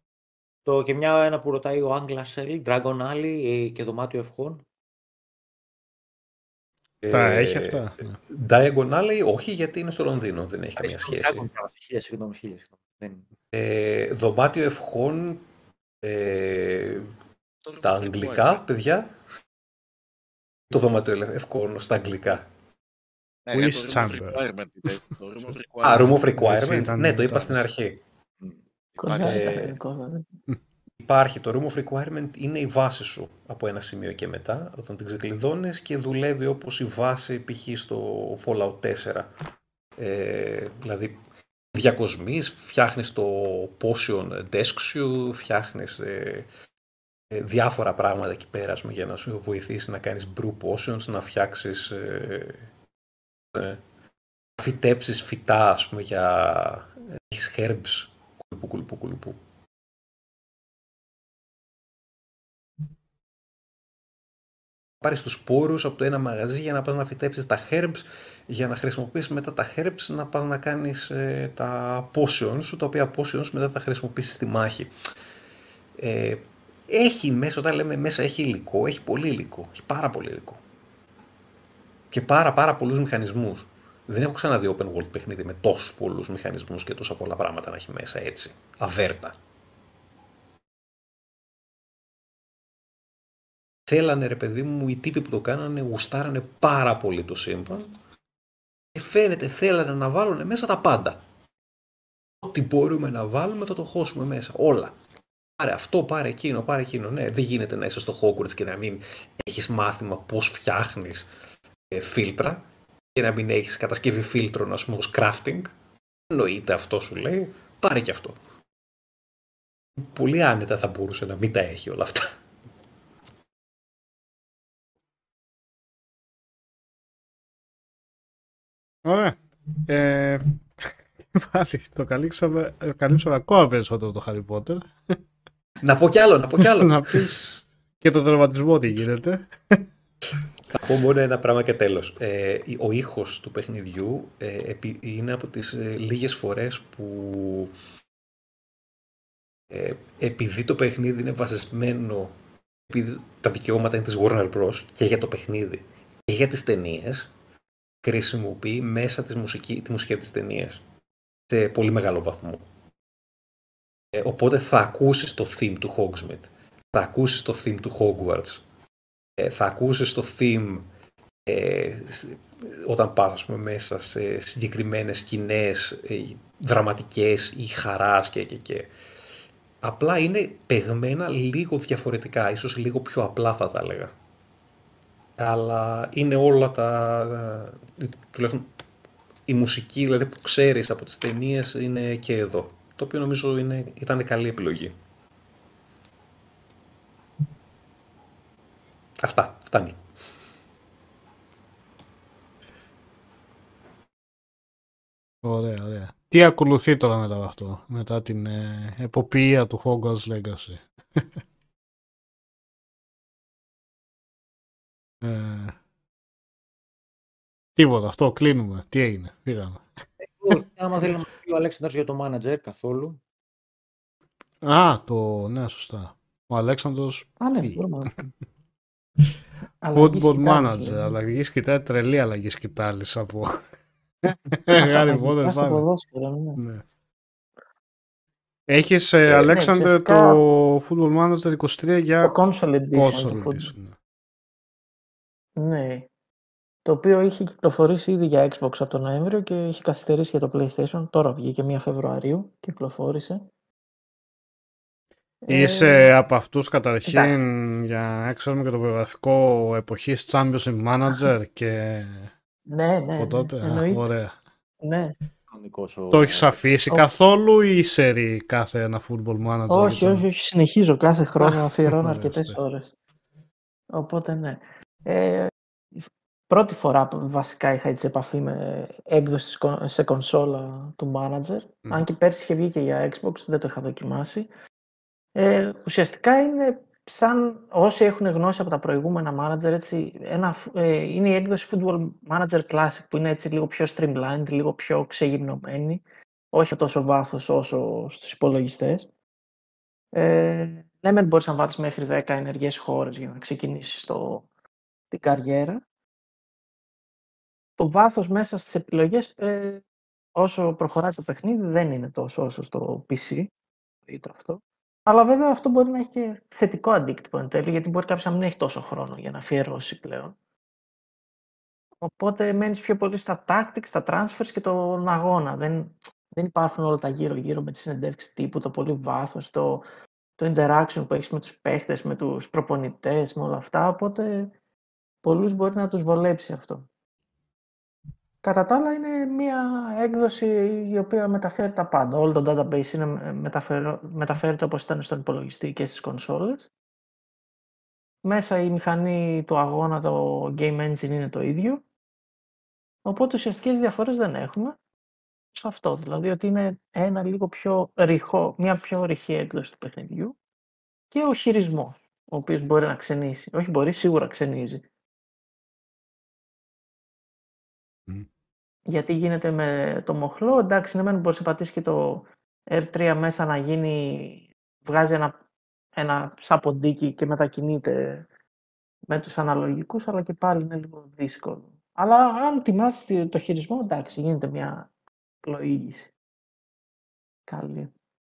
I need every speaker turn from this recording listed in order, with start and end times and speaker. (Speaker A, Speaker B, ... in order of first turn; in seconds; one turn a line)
Speaker A: 0.7-4.6
Speaker B: 7.0-11.5
Speaker C: 7.1-8.2
Speaker A: 10.8-13.3
Speaker B: 13.5-15.4
Speaker B: 16.0-17.1
Speaker D: 17.6-18.6
Speaker B: 17.8-19.1
Speaker B: 20.7-22.4
Speaker D: 23.4-26.2
Speaker C: 23.5-24.4
Speaker B: 25.8-28.0
Speaker C: 26.4-27.6
Speaker D: 28.9-29.5
Speaker E: 29.0-30.2
Speaker B: 29.2-29.8
Speaker B: 31.0-39.3
Speaker B: 40.0-41.1
Speaker B: 41.7-46.5
Speaker B: 47.3-52.6
Speaker B: 53.5-53.8
Speaker B: 54.6-59.4
Speaker B: 65.0-74.9
Speaker B: 76.0-80.6
Speaker B: 82.1-89.3
Speaker B: 93.9-97.9
Speaker B: 98.9-101.2
Speaker B: 102.4-104.9
Speaker B: 105.6-111.3
Speaker B: 111.9-112.6
Speaker B: 113.1-115.7
Speaker B: 116.3-118.4
Speaker B: 120.0-122.3
Speaker C: 129.0-135.2
Speaker B: 135.8-137.3
Speaker C: 136.6-139.8
Speaker B: 140.7-147.7
Speaker B: 149.7-152.3
Speaker B: 152.9-157.3
Speaker B: 158.0-160.8
Speaker B: 161.5-162.6
Speaker B: 164.1-168.6
Speaker B: 169.4-170.9
Speaker B: 171.4-178.9
Speaker B: 179.8-184.1
Speaker B: 185.4-188.7
Speaker B: 189.5-194.9
Speaker B: 199.2-200.0
Speaker C: 205.4-211.2
Speaker C: 215.2-215.8
Speaker C: 217.8-219.8
Speaker A: 220.2-223.2
Speaker C: 224.6-227.8
Speaker E: 227.4-228.1
Speaker E: 229.8-231.0
Speaker C: 229.9-233.7
Speaker C: 234.2-235.8
Speaker E: 234.7-236.6
Speaker C: 236.6-236.8
Speaker C: 238.7-242.4
Speaker E: 239.5-240.4
Speaker E: 242.2-243.7
Speaker C: 242.9-243.9
Speaker E: 245.6-246.1
Speaker E: 246.8-253.5
Speaker E: 255.4-256.1
Speaker C: 255.5-262.3
Speaker E: 257.1-257.4
Speaker E: 262.7-264.0
Speaker C: 263.2-264.4
Speaker E: 264.8-265.1
Speaker A: 265.5-266.6
Speaker C: 266.1-270.2
Speaker E: 269.7-272.9
Speaker C: 271.4-272.6
Speaker E: 273.9-275.5
Speaker E: 276.5-284.5
Speaker E: 285.4-296.0
Speaker E: 296.5-299.1
Speaker E: 300.1-304.4
Speaker E: 305.1-305.8
Speaker E: 307.8-309.8
Speaker E: 310.4-313.5
Speaker E: 314.1-320.3
Speaker E: 322.0-329.8
Speaker E: 330.4-334.5
Speaker E: 335.2-336.8
Speaker E: 338.4-346.7
Speaker E: 348.2-351.8
Speaker E: 353.0-354.8
Speaker E: 355.5-360.3
Speaker E: 361.1-364.8
Speaker E: 368.9-375.3
Speaker E: 376.0-378.2
Speaker E: 379.1-384.9
Speaker E: 385.4-386.1
Speaker E: 387.5-387.9